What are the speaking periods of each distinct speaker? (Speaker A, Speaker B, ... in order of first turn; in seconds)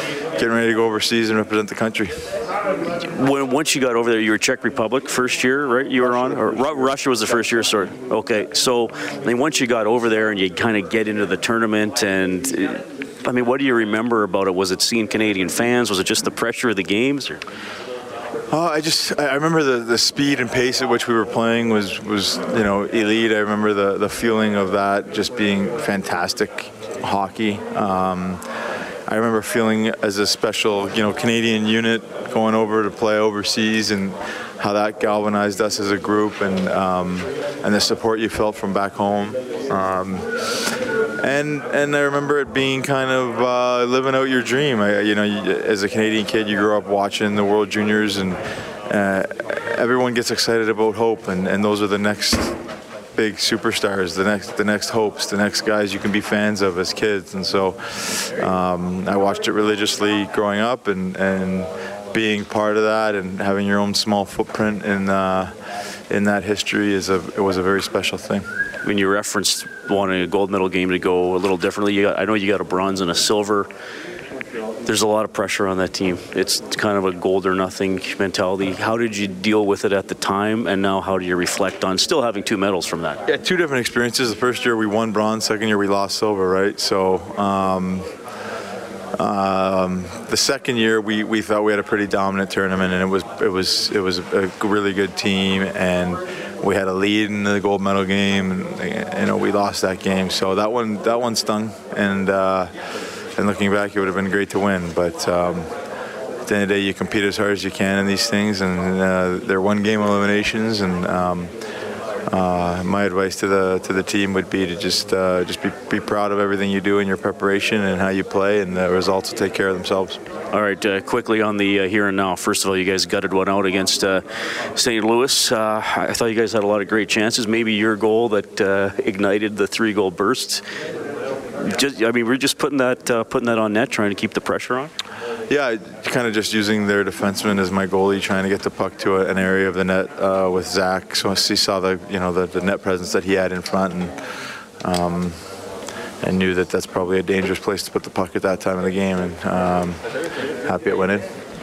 Speaker A: 0.4-2.2, 18.5-28.4, 29.1-40.3, 41.2-52.6, 53.1-65.5, 66.1-68.5, 83.3-88.1, 89.2-102.7, 103.4-105.7, 106.5-111.5, 112.3-120.2, 135.5-144.2, 144.8-145.5, 146.2-150.0, 150.7-151.3
Speaker B: 3.1-17.4, 68.8-73.7, 74.8-83.2, 120.5-124.2, 124.8-130.6, 131.6-134.9